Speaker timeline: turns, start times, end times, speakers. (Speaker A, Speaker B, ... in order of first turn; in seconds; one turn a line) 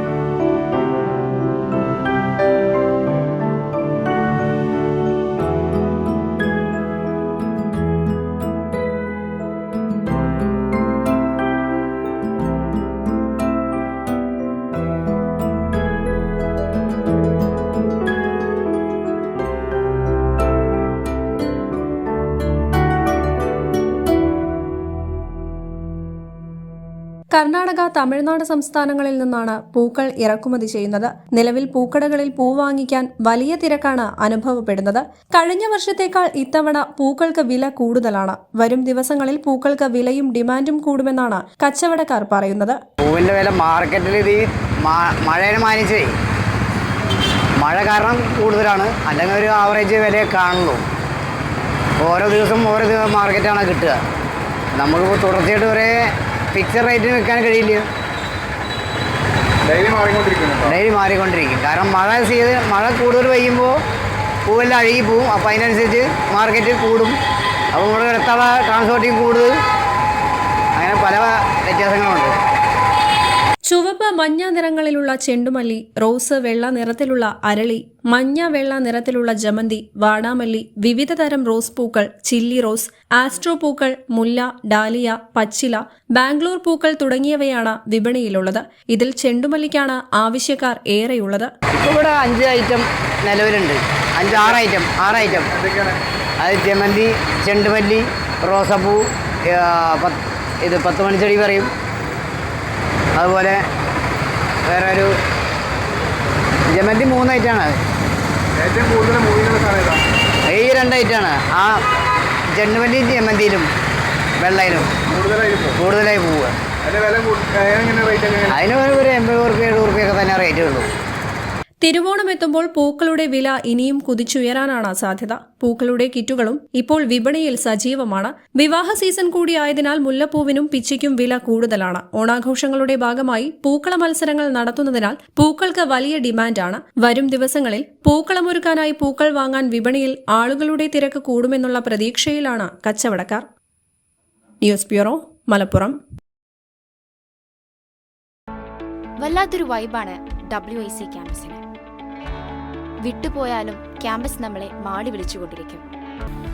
Speaker A: 27.3-42.8
Speaker B: 43.0-46.1
Speaker B: 47.6-50.9
Speaker B: 52.0-54.0
Speaker B: 54.8-56.0
Speaker B: 56.5-57.9
Speaker C: 59.6-60.8
Speaker B: 60.6-63.8
Speaker B: 64.5-67.2
Speaker B: 67.7-69.5
Speaker B: 70.8-72.3
Speaker A: 73.7-91.5
Speaker B: 91.7-95.5
Speaker C: 95.2-96.0
Speaker B: 96.4-101.7
Speaker B: 103.2-103.6
Speaker B: 104.7-105.1
Speaker B: 106.7-107.7
Speaker C: 108.6-110.0
Speaker B: 110.5-111.8
Speaker B: 112.5-113.7
Speaker B: 114.4-115.0
Speaker C: 115.1-115.8
Speaker B: 115.8-116.5
Speaker C: 116.8-118.6
Speaker B: 118.5-120.9
Speaker A: 121.8-143.5
Speaker A: 144.6-146.0
Speaker D: 149.2-151.6
Speaker D: 153.0-155.8